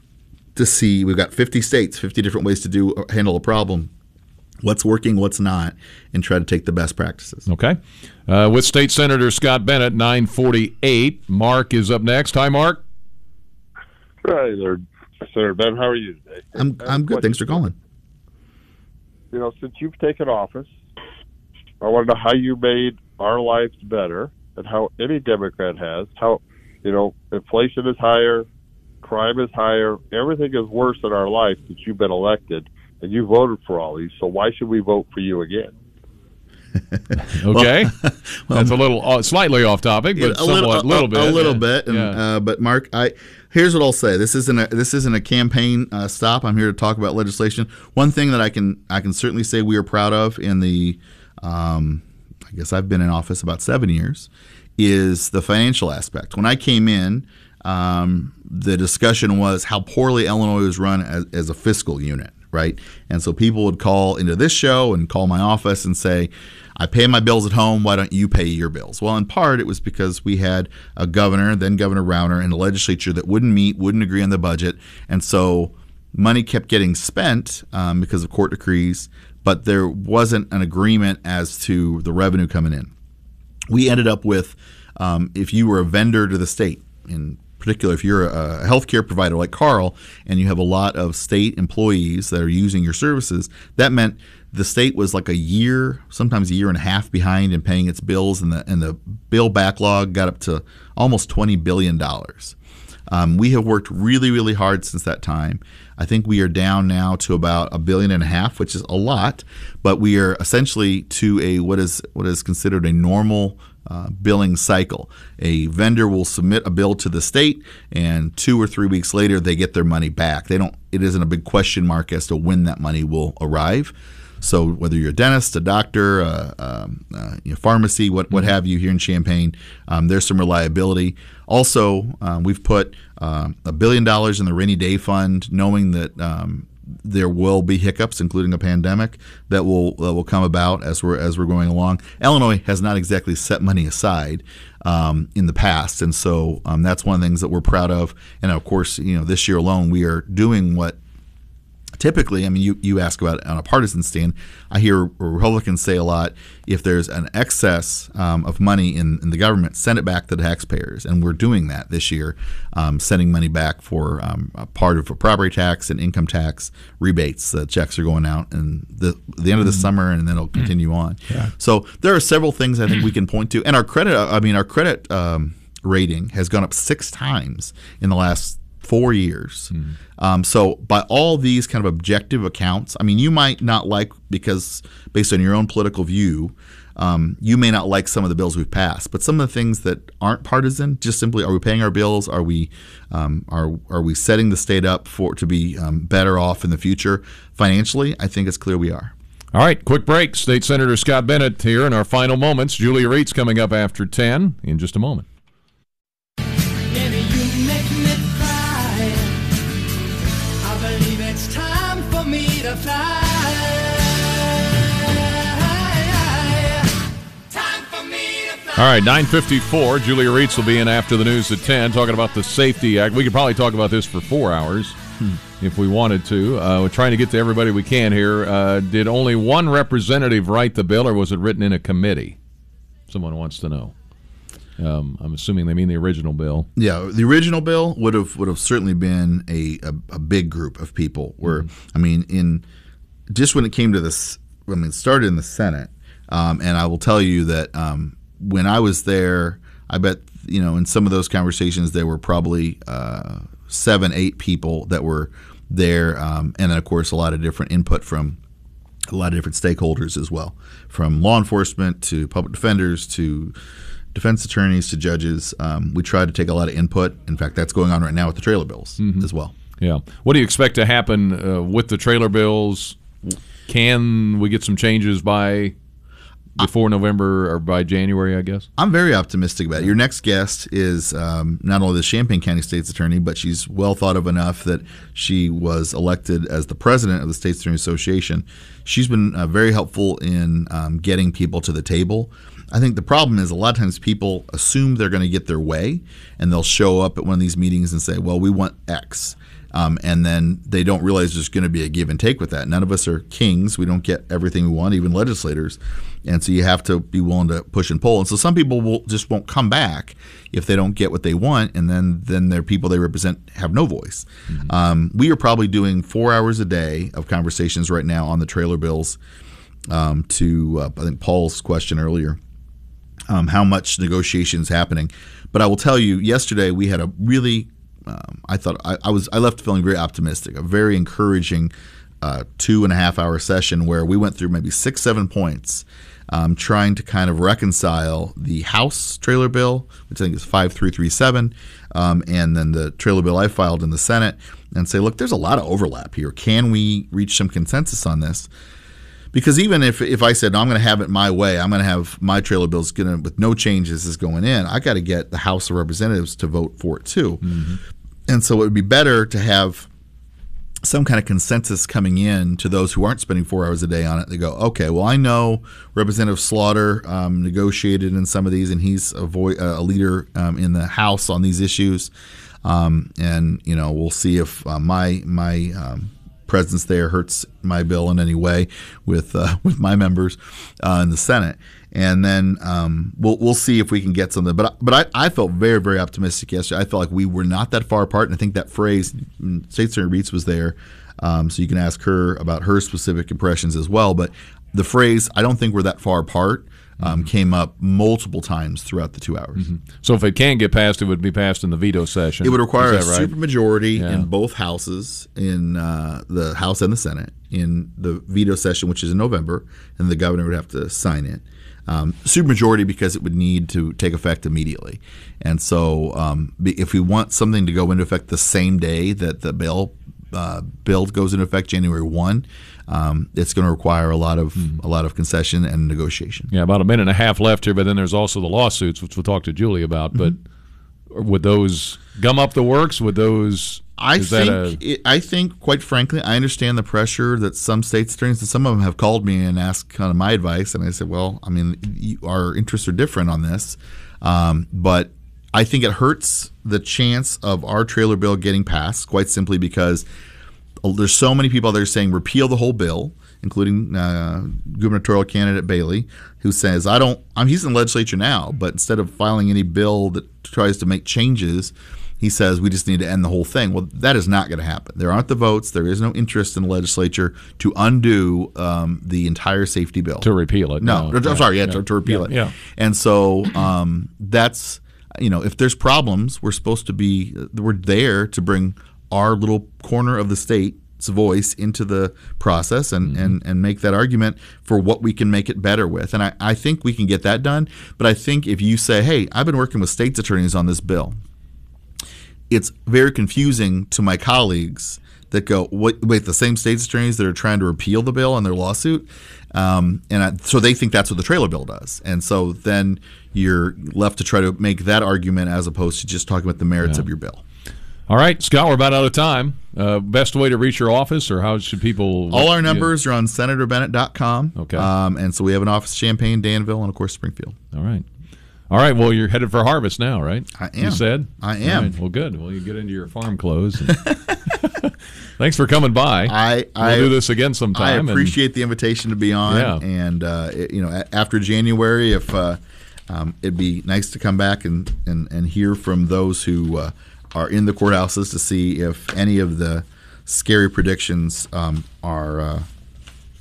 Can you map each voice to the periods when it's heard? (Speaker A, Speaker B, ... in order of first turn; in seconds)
Speaker A: 0.6-3.9, 4.6-7.5, 16.6-17.8, 37.5-38.8, 40.2-82.9, 83.7-102.6, 103.1-151.0, 152.0-199.1, 236.8-242.7, 243.3-258.4, 259.1-263.6, 264.1-269.5, 278.8-319.2, 319.9-322.4, 323.3-348.5, 349.3-357.4, 358.3-359.9, 360.8-372.1, 372.6-399.7, 402.4-426.5, 434.0-450.1, 450.8-470.3, 470.8-491.2, 492.5-507.4, 512.3-517.6, 520.5-522.0, 523.9-524.4, 526.3-527.2, 527.7-542.7
Speaker B: 7.5-12.8, 37.3-38.0, 38.5-42.2, 179.7-180.0, 199.5-205.3, 218.8-225.0, 225.6-232.4, 233.1-233.9, 234.8-236.7, 269.0-275.8, 276.6-278.7, 357.4-357.8, 399.6-403.3, 403.9-404.3, 426.5-430.4, 431.1-434.8, 470.2-472.6, 483.1-483.4, 508.1-512.9, 514.6-514.9, 517.7-518.0, 518.7-524.0, 524.5-528.4, 529.5-529.8
Speaker C: 14.2-17.7, 19.3-20.8, 21.8-28.5, 29.0-35.7
Speaker D: 206.9-209.5, 210.6-217.0, 217.5-219.1